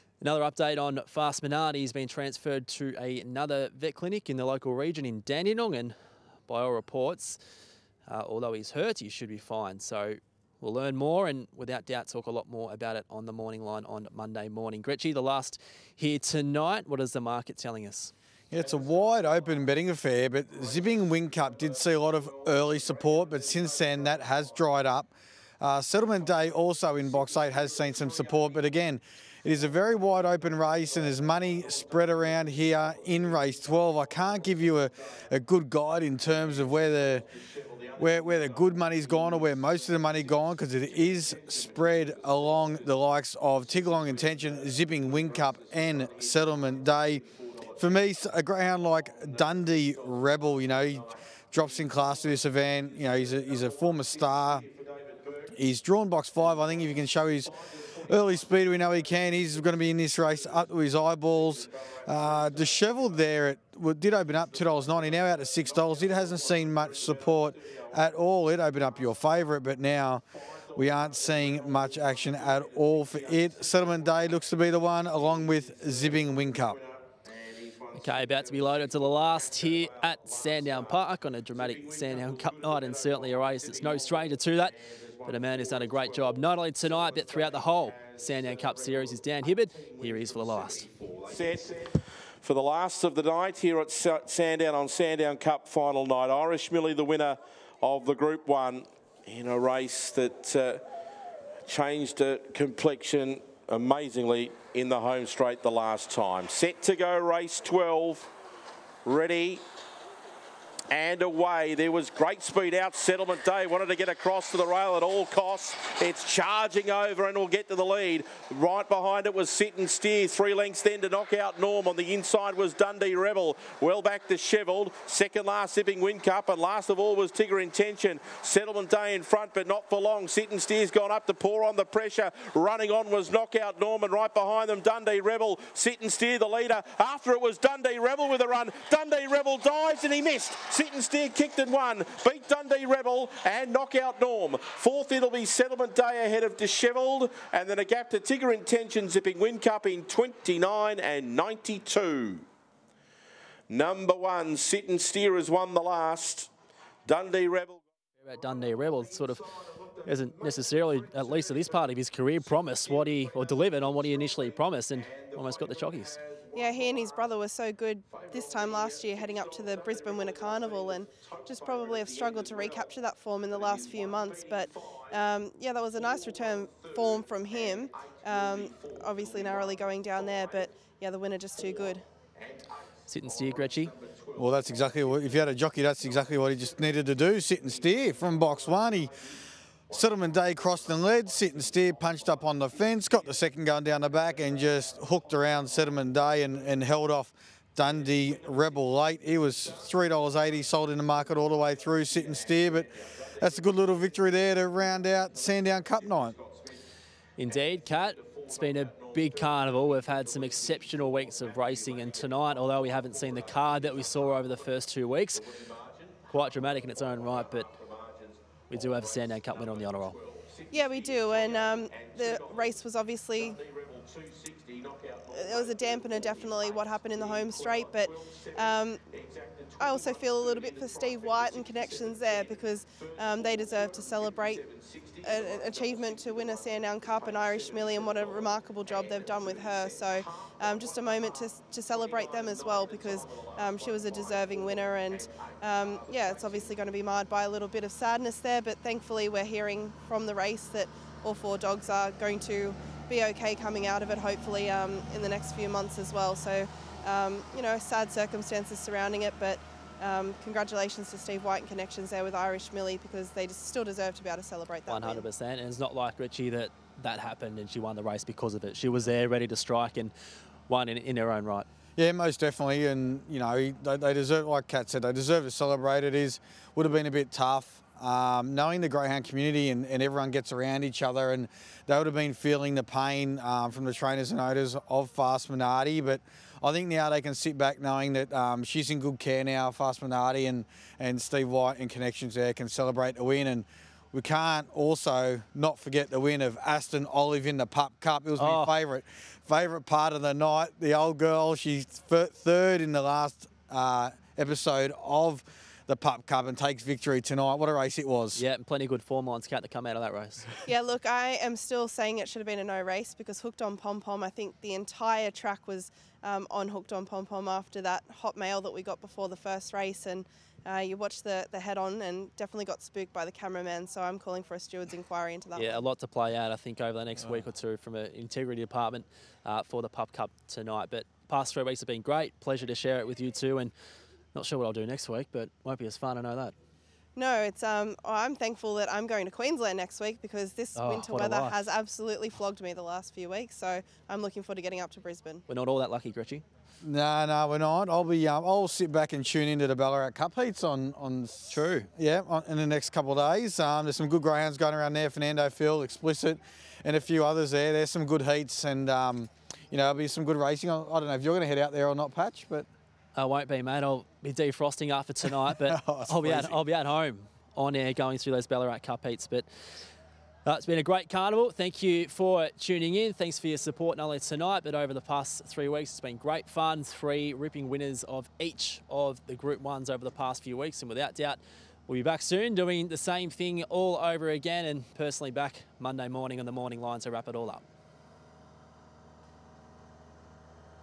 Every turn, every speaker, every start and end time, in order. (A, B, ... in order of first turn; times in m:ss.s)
0:00.2-0:06.0 A
0:06.5-0:07.4 A
0:08.1-0:18.1 A
0:18.5-0:37.3 B
0:21.4-0:21.6 C
0:22.6-0:24.1 C
0:27.4-0:28.6 C
0:32.0-0:32.2 C
0:36.5-0:36.9 C
0:37.6-0:42.8 C
0:38.0-0:47.2 B
0:43.8-0:47.8 C
0:47.8-0:54.7 B
0:49.1-0:50.9 C
0:53.0-0:55.5 C
0:55.5-1:10.2 B
0:57.9-0:58.4 C
1:01.6-1:02.9 C
1:04.7-1:07.9 C
1:10.7-1:16.8 B
1:11.2-1:14.2 C
1:15.0-1:16.9 C
1:17.4-1:21.0 C
1:17.9-1:30.9 A
1:21.5-1:24.5 C
1:25.1-1:29.1 C
1:30.2-1:40.8 C
1:41.7-1:48.3 C
1:49.0-1:49.6 C
1:50.9-2:32.4 C
2:33.7-2:36.5 C
2:37.0-2:37.8 C
2:38.2-2:39.5 A
2:40.0-2:46.2 A
2:44.1-2:44.5 C
2:45.1-2:45.9 C
2:46.5-3:02.0 D
2:48.2-2:52.9 C
2:53.5-2:54.7 C
2:56.8-3:00.6 C
3:03.1-3:03.9 A
3:03.3-3:04.8 C
3:04.4-3:09.1 B
3:08.4-3:09.0 C
3:09.9-3:26.4 B
3:22.0-3:24.0 C
3:26.1-3:26.5 C
3:27.4-3:35.4 A
3:27.5-3:32.4 C
3:33.0-3:34.5 C
3:35.5-3:36.1 C
3:36.3-3:37.7 A
3:37.1-3:42.8 C
3:38.7-3:40.2 A
3:40.7-3:43.6 D
3:43.4-3:48.7 C
3:45.3-3:49.0 D
3:49.3-3:52.6 C
3:49.8-3:54.6 D
3:53.3-4:06.7 C
3:55.2-4:25.2 D
4:24.9-4:30.1 A
4:30.7-4:31.7 A
4:32.0-5:08.4 B
4:58.4-4:58.7 A
5:08.3-5:10.5 A
5:10.6-5:25.8 D
5:25.5-5:33.7 A
5:34.3-5:36.5 A
5:37.2-5:45.4 D
5:40.7-5:41.6 A
5:45.5-5:46.4 A
5:46.8-6:02.7 B
5:51.5-5:51.9 A
6:03.1-6:09.5 A
6:05.2-6:06.6 B
6:10.4-6:27.6 A